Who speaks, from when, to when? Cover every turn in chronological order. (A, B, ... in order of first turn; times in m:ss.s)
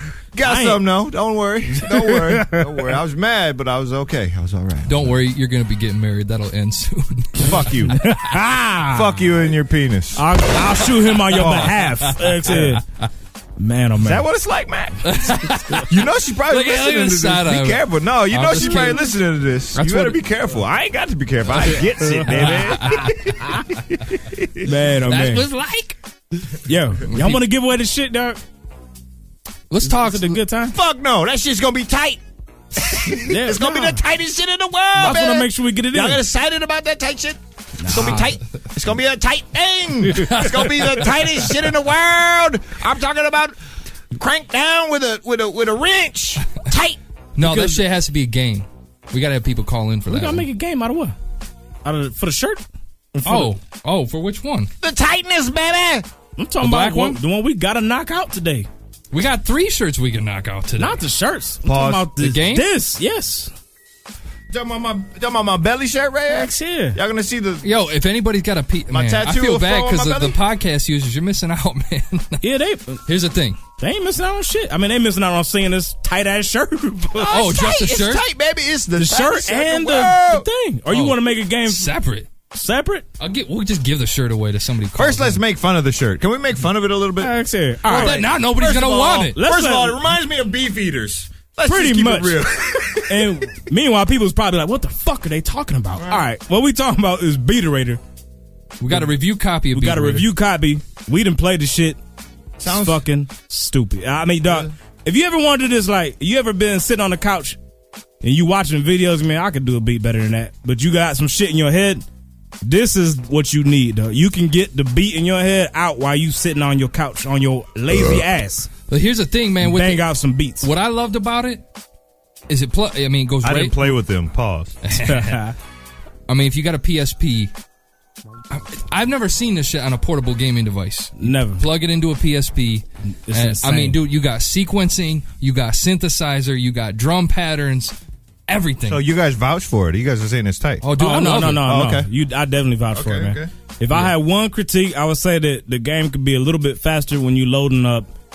0:00.3-0:05.2 A
0:00.4-0:00.8 B
0:01.7-0:03.0 B
0:04.9-0:07.9 C
0:07.4-0:08.0 A
0:08.0-0:09.2 B
0:08.9-0:10.3 A
0:10.2-0:12.8 B
0:11.0-0:12.7 C
0:11.4-0:11.8 A
0:13.6-0:14.2 B
0:14.0-0:15.3 A
0:15.0-0:15.9 C
0:15.8-0:24.7 A
0:16.4-0:19.2 C
0:19.8-0:20.2 C
0:22.3-0:23.3 C
0:24.6-0:25.5 B
0:25.1-0:26.0 C
0:26.7-0:28.4 B
0:27.1-0:27.4 C
0:29.7-0:30.4 C
0:29.8-0:30.8 B
0:30.7-0:32.2 A
0:32.7-0:43.6 A
0:33.2-0:34.0 B
0:35.0-0:36.2 B
0:37.8-0:38.3 B
0:40.2-0:40.5 B
0:40.3-0:41.1 C
0:44.1-0:47.0 A
0:47.4-0:50.4 C
0:47.4-0:47.8 B
0:50.1-0:51.2 B
0:51.8-0:52.6 B
0:53.2-0:53.6 B
0:53.2-0:54.7 C
0:54.8-0:56.1 A
0:56.4-0:58.7 B
0:56.6-0:57.2 C
0:59.1-1:01.0 C
1:00.8-1:03.5 B
1:01.6-1:02.2 A
1:02.2-1:02.7 C
1:04.5-1:07.7 A
1:06.3-1:07.0 B
1:07.6-1:12.4 C
1:08.9-1:10.4 A
1:12.4-1:13.0 B
1:13.1-1:13.6 C
1:13.8-1:17.4 B
1:17.2-1:20.5 A
1:17.3-1:18.2 C
1:19.0-1:21.9 B
1:20.9-1:22.3 C
1:22.5-1:23.0 B
1:23.2-1:25.4 C
1:25.0-1:33.5 A
1:27.2-1:28.3 B
1:27.9-1:29.4 C
1:29.4-1:30.0 B
1:31.6-1:32.5 B
1:33.1-1:38.0 B
1:36.0-1:36.2 A
1:38.8-1:40.3 C
1:39.7-1:42.0 B
1:42.6-1:43.0 A
1:42.6-1:47.6 B
1:44.4-1:44.7 A
1:48.2-1:52.0 B
1:52.6-1:58.7 B
1:58.9-2:00.1 C
1:59.6-2:00.7 B
2:00.6-2:01.6 C
2:02.5-2:03.9 C
2:03.4-2:04.8 A
2:04.8-2:05.4 C
2:04.9-2:05.6 B
2:06.3-2:07.5 C
2:08.5-2:17.9 C
2:11.2-2:11.6 B
2:13.3-2:14.0 B
2:18.5-2:19.0 C
2:18.9-2:20.9 A
2:20.8-2:21.8 C
2:21.0-2:28.1 B
2:21.6-2:22.1 A
2:22.9-2:23.5 A